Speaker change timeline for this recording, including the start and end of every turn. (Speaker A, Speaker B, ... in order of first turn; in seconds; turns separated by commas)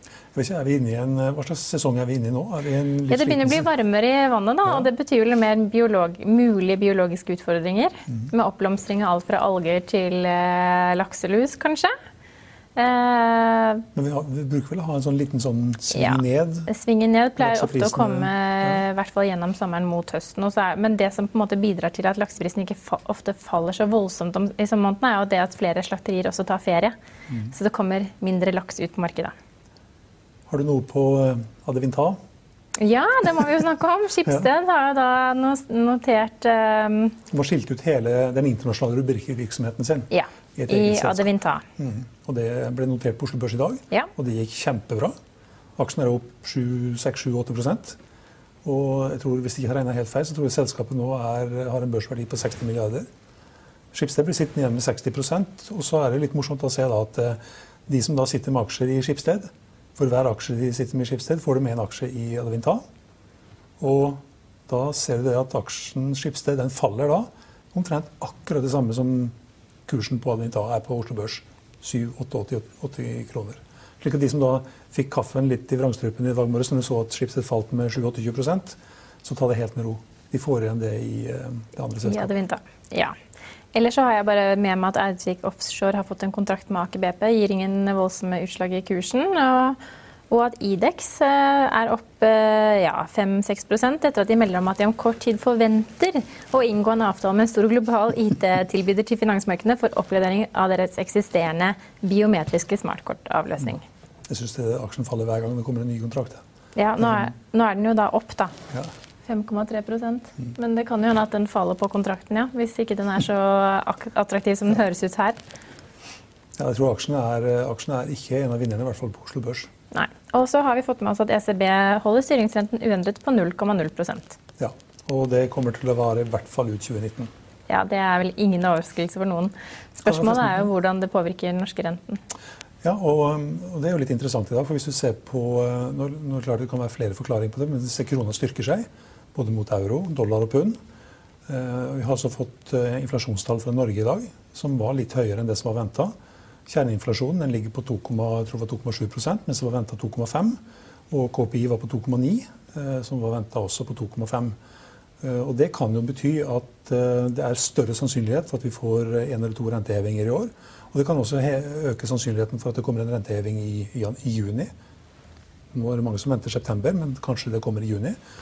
Speaker A: 0.3-3.7, Speaker B: 3.1-11.9, Speaker B: 12.8-13.8, Speaker A: 13.9-16.7, Speaker B: 15.9-26.9, Speaker A: 17.4-18.8, Speaker B: 27.5-29.3, Speaker A: 30.5-32.2, Speaker B: 32.8-37.1, Speaker A: 37.3-45.1, Speaker B: 40.1-41.6, Speaker A: 45.8-48.0, Speaker A: 48.6-53.1, Speaker A: 53.9-62.8, Speaker A: 63.8-69.3, Speaker A: 69.9-82.3, Speaker B: 82.0-83.1, Speaker B: 83.7-89.8, Speaker B: 90.3-103.8, Speaker A: 104.3-106.4, Speaker B: 106.8-108.5, Speaker A: 107.0-107.3, Speaker B: 109.3-115.4, Speaker A: 116.6-119.7, Speaker B: 119.9-124.4, Speaker A: 124.6-127.3, Speaker B: 127.7-132.2, Speaker A: 130.0-130.7, Speaker A: 132.8-140.8, Speaker A: 141.5-146.1, Speaker A: 146.7-150.6, Speaker A: 151.1-154.5, Speaker A: 155.2-164.7, Speaker A: 165.7-168.2